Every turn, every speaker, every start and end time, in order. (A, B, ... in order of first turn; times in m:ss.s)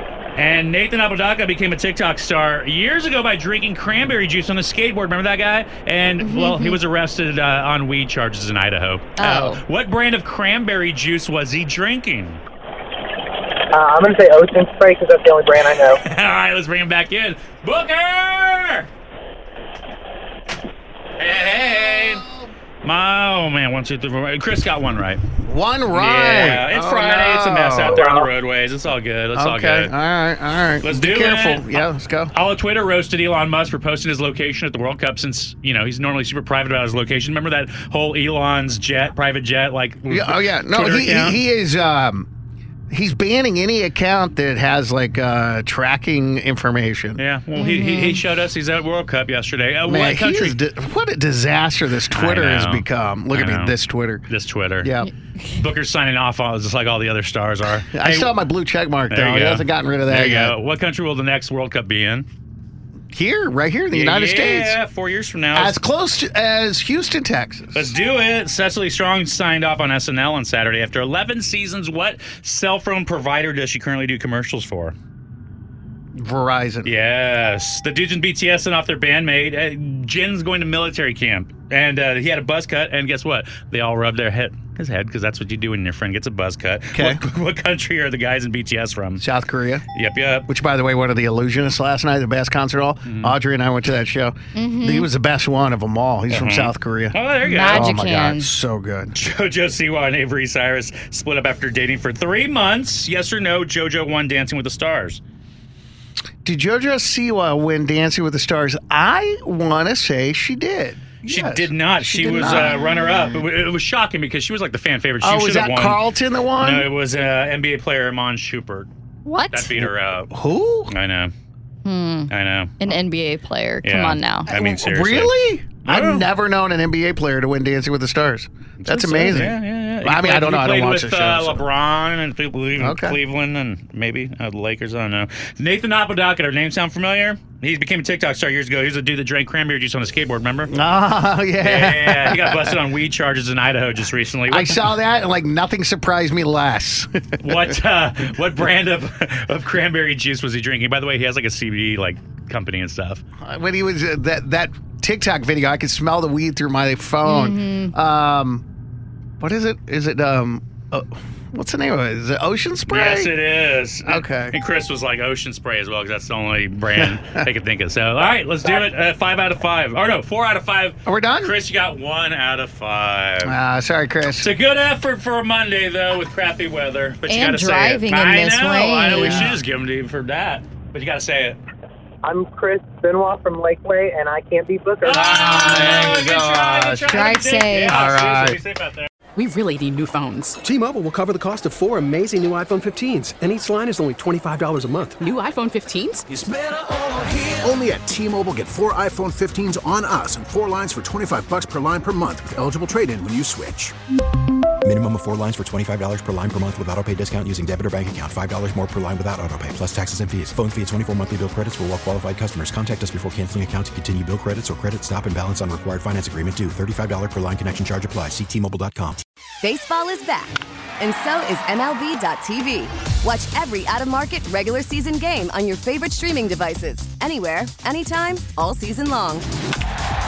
0:00.3-0:12.4 A
0:06.2-0:06.8 B
0:09.2-0:09.6 B
0:13.7-0:16.0 C
0:15.9-0:18.9 A
0:21.2-0:22.2 A
0:22.8-0:25.2 A
0:25.4-0:28.1 D
0:25.9-0:29.9 A
0:28.0-0:28.3 C
0:29.3-0:32.3 D
0:30.8-0:41.4 A
0:40.1-0:42.3 D
0:42.9-0:47.2 D
0:47.2-0:50.6 A
0:47.5-0:48.2 B
0:49.8-0:54.2 D
0:52.1-0:55.0 A
0:54.8-0:55.1 D
0:55.5-0:58.4 A
0:57.9-1:00.5 D
0:59.1-1:02.3 A
1:03.1-1:04.8 D
1:03.9-1:05.8 A
1:05.5-1:07.9 D
1:07.7-1:14.9 A
1:16.1-1:16.9 D
1:16.8-1:29.2 A
1:26.9-1:27.2 D
1:29.2-1:29.8 D
1:29.9-1:30.5 A
1:30.5-1:39.2 D
1:33.0-1:33.4 A
1:34.5-1:35.1 B
1:36.3-1:38.0 A
1:37.4-1:38.5 B
1:39.1-1:45.2 A
1:46.4-1:53.2 D
1:51.2-1:58.9 A
1:55.2-1:56.9 D
1:59.2-1:59.7 B
1:59.5-2:00.3 A
1:59.8-2:00.9 D
2:00.9-2:01.3 A
2:01.8-2:04.5 B
2:02.3-2:02.8 A
2:03.8-2:05.3 A
2:04.5-2:11.6 D
2:05.8-2:06.3 A
2:08.8-2:20.7 A
2:12.8-2:13.2 D
2:20.7-2:22.8 D
2:21.6-2:24.9 A
2:24.5-2:27.8 D
2:27.4-2:33.2 A
2:33.4-2:38.6 D
2:37.2-2:37.9 B
2:39.4-2:43.3 D
2:42.9-2:53.5 A
2:44.0-2:44.6 D
2:47.0-2:47.4 D
2:51.0-2:51.6 D
2:53.4-2:54.5 D
2:54.4-3:01.6 A
2:57.3-2:59.5 B
3:02.2-3:05.9 C
3:05.0-3:09.1 A
3:05.1-3:07.2 D
3:07.1-3:08.2 B
3:07.8-3:08.6 D
3:09.3-3:10.6 E
3:10.6-3:15.2 F
3:15.2-3:16.2 E
3:17.4-3:23.9 G
3:24.8-3:39.2 H
3:39.6-3:49.5 I